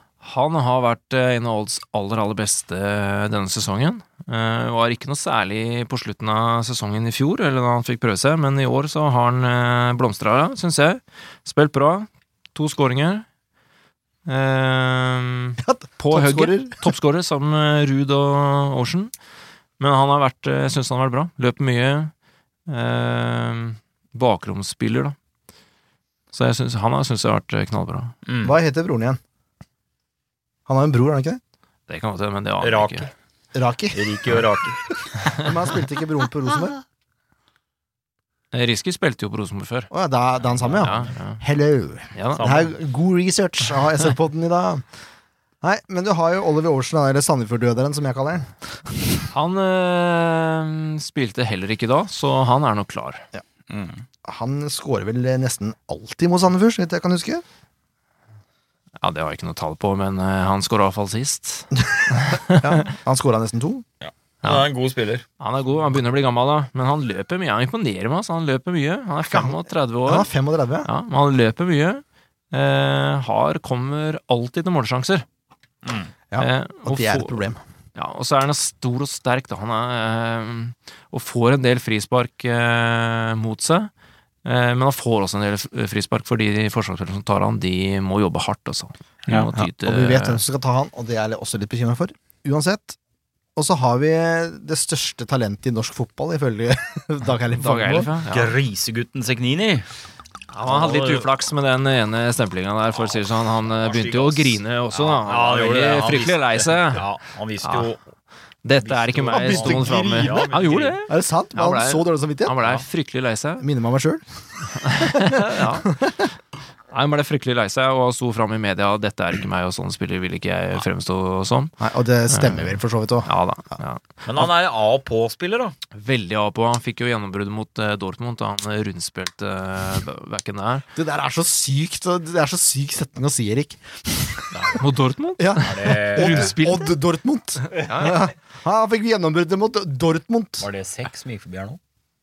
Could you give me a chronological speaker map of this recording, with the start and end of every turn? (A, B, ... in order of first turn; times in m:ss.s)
0:00.2-0:13.2 A
0:14.2-0:19.1 A
0:15.6-0:16.9 B
0:19.8-0:22.1 A
0:22.7-0:25.1 A
0:26.3-0:28.1 A
0:28.2-0:28.5 C
0:28.4-0:29.2 B
0:30.7-0:31.4 B
0:31.9-0:33.1 A
0:32.6-0:33.1 C
0:33.5-0:34.1 B
0:33.9-0:34.8 C
0:35.3-0:36.8 B
0:38.5-0:39.9 A
0:39.9-0:44.8 B
0:40.7-0:41.4 A
0:42.1-0:42.5 A
0:42.4-0:42.7 C
0:45.6-0:48.5 B
0:49.3-0:53.2 A
0:54.2-0:57.4 B
0:59.0-1:02.8 A
1:01.9-1:03.8 B
1:04.0-1:05.2 C
1:05.4-1:10.3 A
1:09.2-1:10.9 B
1:10.8-1:15.2 A
1:16.3-1:17.6 B
1:16.4-1:17.4 A
1:17.9-1:23.9 A
1:24.4-1:30.4 A
1:29.5-1:33.0 B
1:33.6-1:38.1 B
1:37.5-1:38.5 A
1:38.3-1:39.9 C
1:40.5-1:47.0 A
1:40.6-1:41.3 C
1:43.0-1:48.0 C
1:47.6-1:47.9 A
1:48.6-1:53.6 A
1:48.8-1:51.0 C
1:49.3-1:50.5 B
1:51.1-1:52.6 B
1:53.6-1:54.2 B
1:54.7-1:55.9 A
1:54.7-1:56.3 B
1:56.9-2:01.8 A
2:01.8-2:03.3 B
2:02.3-2:04.0 A
2:04.2-2:05.7 C
2:05.9-2:10.8 A
2:11.0-2:14.8 B
2:14.5-2:17.0 A
2:15.4-2:20.7 B
2:15.6-2:16.5 C
2:17.7-2:18.3 A
2:20.6-2:21.8 C